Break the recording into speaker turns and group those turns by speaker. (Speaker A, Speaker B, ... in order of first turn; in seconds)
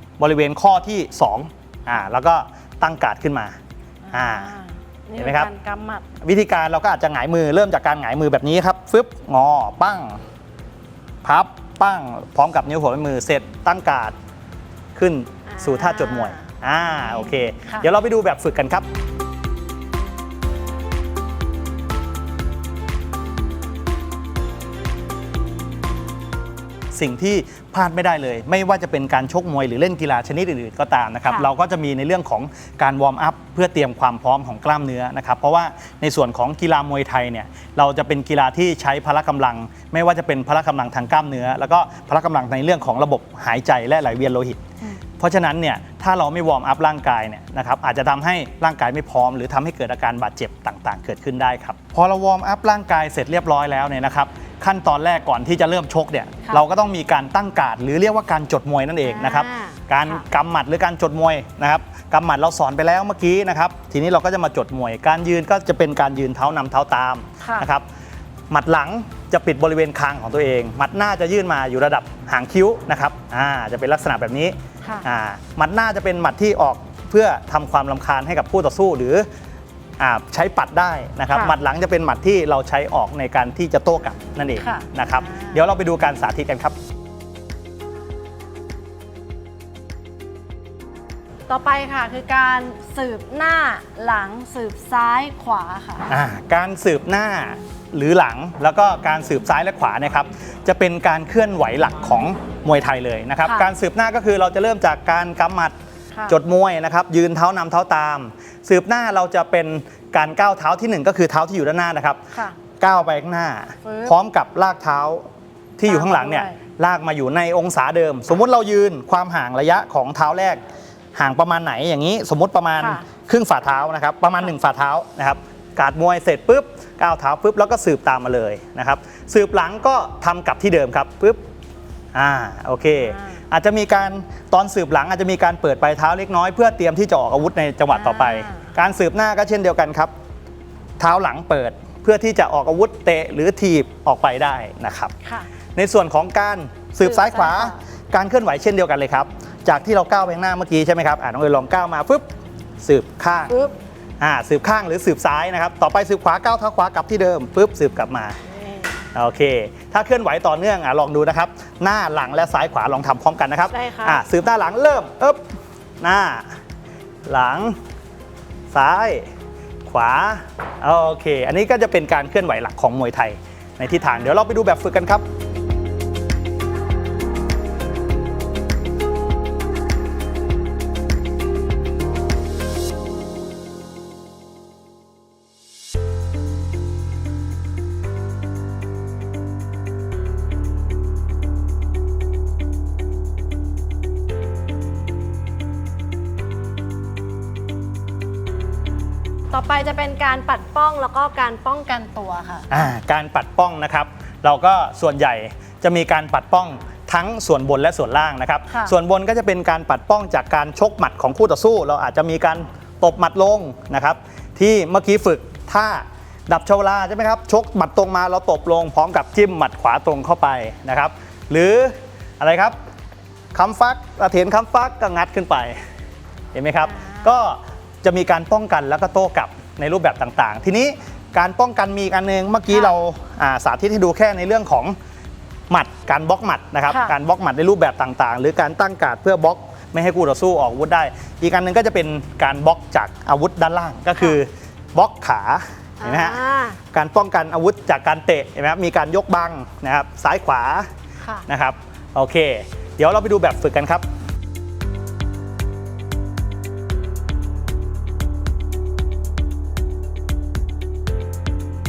Speaker A: 0.2-3.6, 4.1-4.5, 5.2-5.5, 6.2-10.2, 11.2-14.1, 14.9-18.9, 26.9-44.6, 45.2-67.8, 68.5-79.3, 80.0-86.8, 96.1-105.7, 106.3-112.2, 112.8-115.3, 115.8-120.6, 121.2-131.4, 132.1-140.1, 141.0-145.1, 145.7-152.2, 152.8-153.5, 154.2-158.4, 159.1-165.4, 166.0-166.6, 167.2-167.8, 168.7-169.3, 169.8-175.3, 202.7-222.8, 223.5-225.8, 226.5-234.9, 235.7-246.4, 246.9-250.9, 251.5-254.1
Speaker B: 4.0-6.0, 15.5-16.5, 17.0-17.9, 59.0-60.2, 67.4-67.7, 81.3-81.5, 84.6-85.6, 91.5-96.1, 103.4-103.7, 113.8-114.2, 115.9-116.6, 122.8-123.0, 133.0-133.4, 137.9-138.7, 147.0-147.8, 153.5-153.7, 158.5-158.9, 163.7-164.2, 199.5-202.9, 226.8-227.3, 236.9-237.1, 246.0-246.8